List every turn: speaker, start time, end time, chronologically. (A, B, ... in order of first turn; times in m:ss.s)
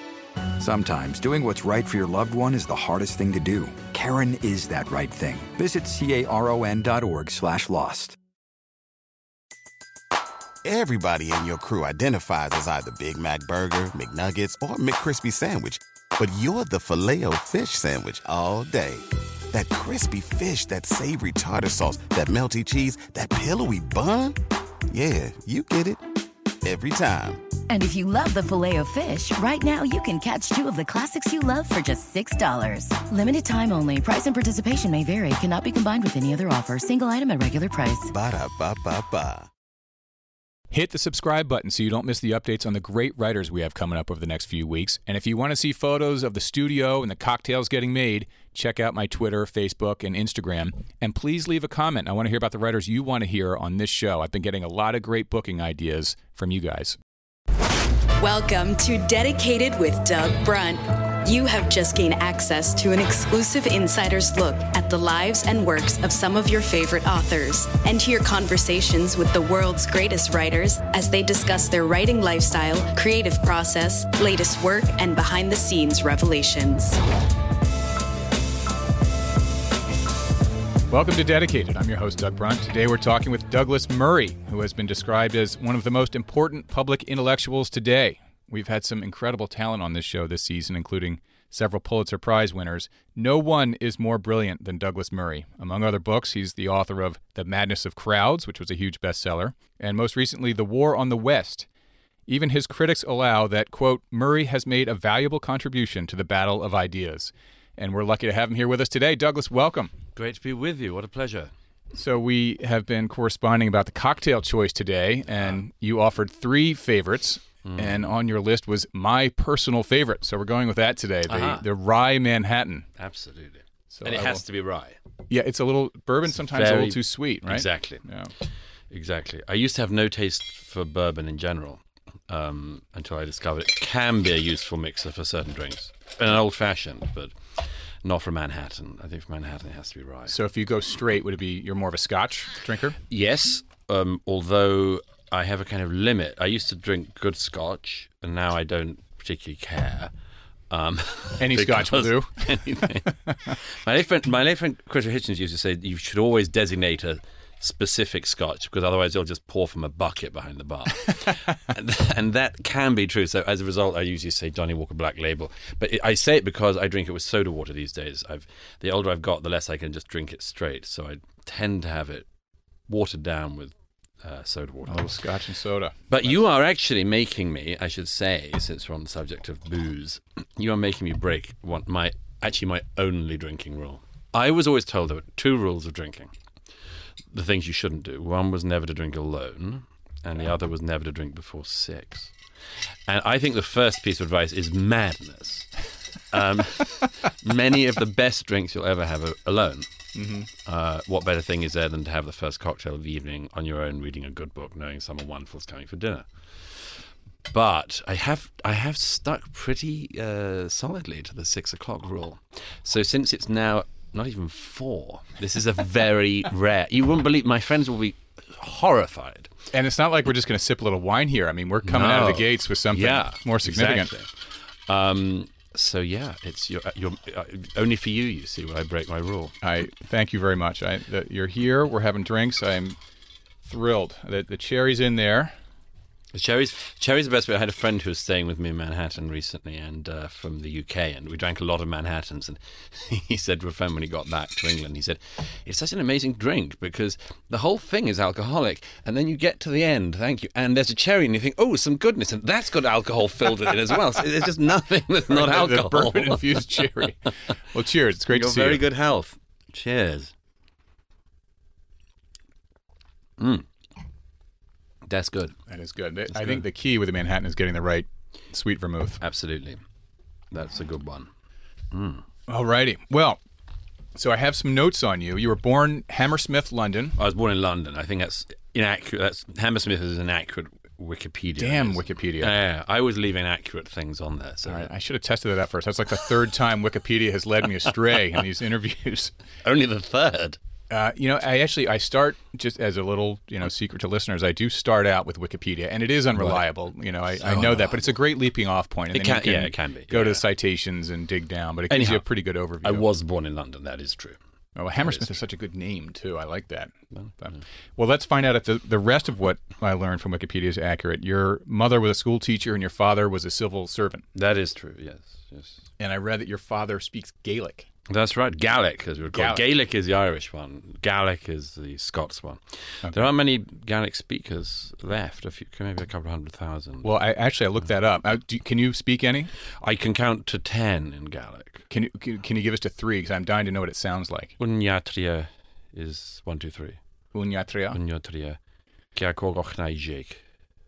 0:00.6-0:08.2 A
0:10.6-0:24.4 B
0:24.9-0:26.0 B
0:26.6-0:27.4 B
0:27.7-0:38.1 C
0:38.1-0:39.5 B
0:40.7-0:57.0 D
0:58.2-1:17.0 E
1:20.9-1:41.7 D
1:42.3-1:49.9 D
1:50.2-1:51.5 F
1:51.9-2:02.9 D
1:57.6-1:58.1 F
2:01.3-2:01.7 F
2:03.0-2:05.0 F
2:03.9-2:04.4 D
2:05.3-2:08.3 D
2:06.4-2:08.1 F
2:08.9-2:20.4 F
2:20.3-2:23.0 D
2:23.1-2:30.1 F
2:30.7-2:52.3 F
2:31.4-2:33.5 D
2:52.9-2:55.2 F
2:54.9-2:56.4 D
2:56.1-3:06.3 F
3:07.3-3:12.4 F
3:13.1-3:39.5 F
3:20.2-3:20.5 D
3:39.7-3:44.1 D
3:41.8-3:49.6 F
3:49.6-3:53.0 D
3:53.6-3:55.6 D
3:56.3-4:16.9 F
4:15.3-4:18.8 D
4:18.3-4:20.3 F
4:23.4-4:23.7 F
4:25.1-4:25.6 F
4:25.7-4:29.2 D
4:26.3-4:26.6 F
4:29.2-4:29.8 F
4:30.5-4:31.3 F
4:31.9-4:32.2 F
4:32.5-4:33.4 D
4:34.2-4:37.2 D
4:37.2-4:44.9 F
4:41.6-4:42.6 D
4:44.7-4:49.3 D
4:49.6-4:50.6 F
4:50.9-5:03.1 D
4:56.4-4:56.7 F
4:57.4-4:58.0 F
4:59.1-5:00.4 F
5:01.9-5:02.2 F
5:02.8-5:04.4 F
5:04.8-5:14.2 D
5:05.0-5:05.3 F
5:07.1-5:07.6 F
5:14.3-5:15.8 F
5:16.0-5:17.9 D
5:18.1-5:27.2 F
5:19.3-5:19.6 D
5:23.0-5:23.3 D
5:27.0-5:29.5 D
5:29.8-5:31.8 F
5:31.9-5:34.5 D
5:34.6-5:37.0 F
5:37.3-5:38.0 D
5:37.9-5:38.6 F
5:39.1-5:40.4 F